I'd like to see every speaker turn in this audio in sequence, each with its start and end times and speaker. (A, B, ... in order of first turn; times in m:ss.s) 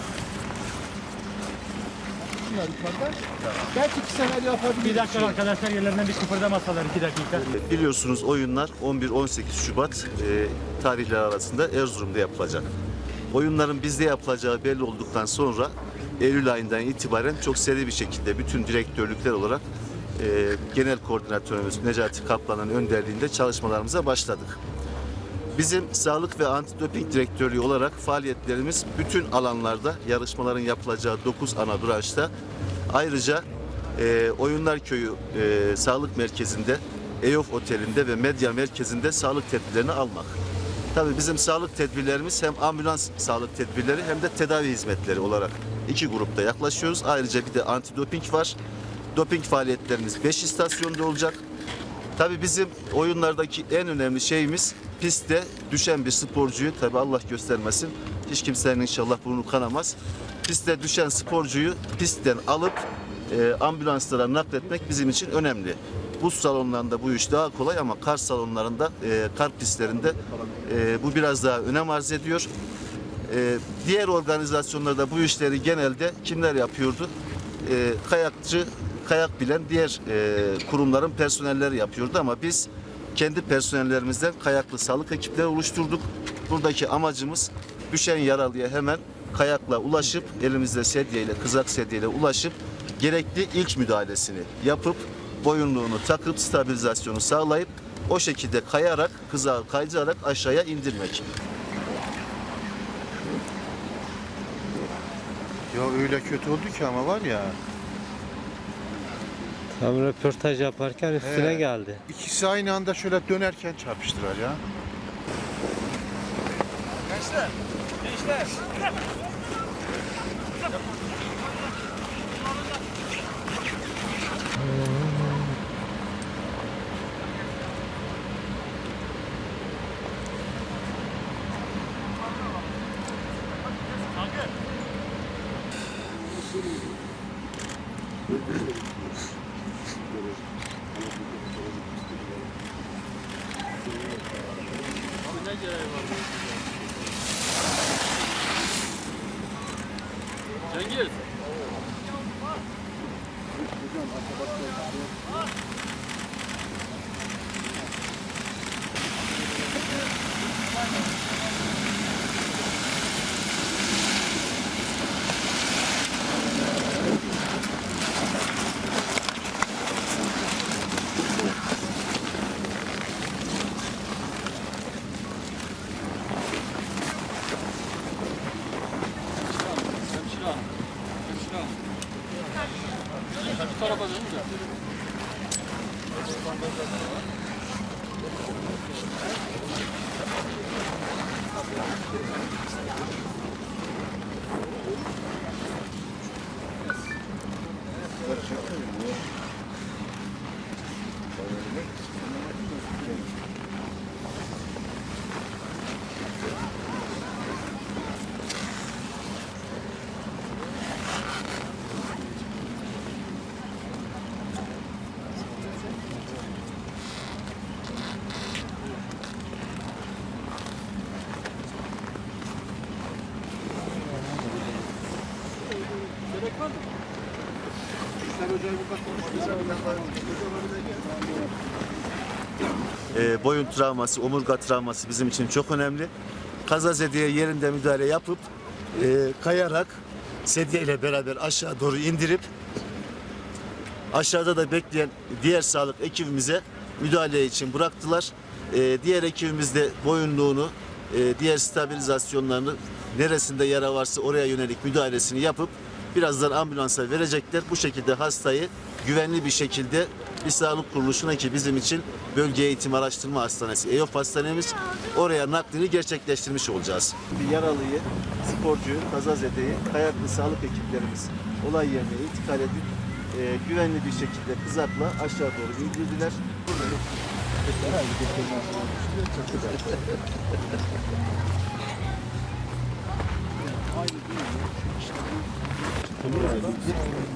0:02.3-0:03.2 A
0:03.4-0:03.8 B
0:03.7-0:05.4 A
0:04.8-0:07.4 C
0:07.5-0:12.7 B
0:13.3-0:19.6 B
0:20.2-0:24.6 B
0:25.6-0:32.3 B
0:32.9-0:40.4 B
0:40.9-0:48.6 B
0:49.2-0:51.4 B
0:52.2-1:12.5 B
1:13.3-1:17.1 B
1:17.6-1:41.3 B
1:45.7-1:47.6 D
1:49.8-1:52.0 E
1:51.2-1:54.6 D
3:48.5-3:51.0 A
3:53.1-3:56.1 B
3:56.7-4:02.5 B
4:04.1-4:37.0 B
4:37.8-4:38.8 A
4:43.9-4:45.5 A
4:46.2-4:47.1 A
4:46.3-4:46.9 B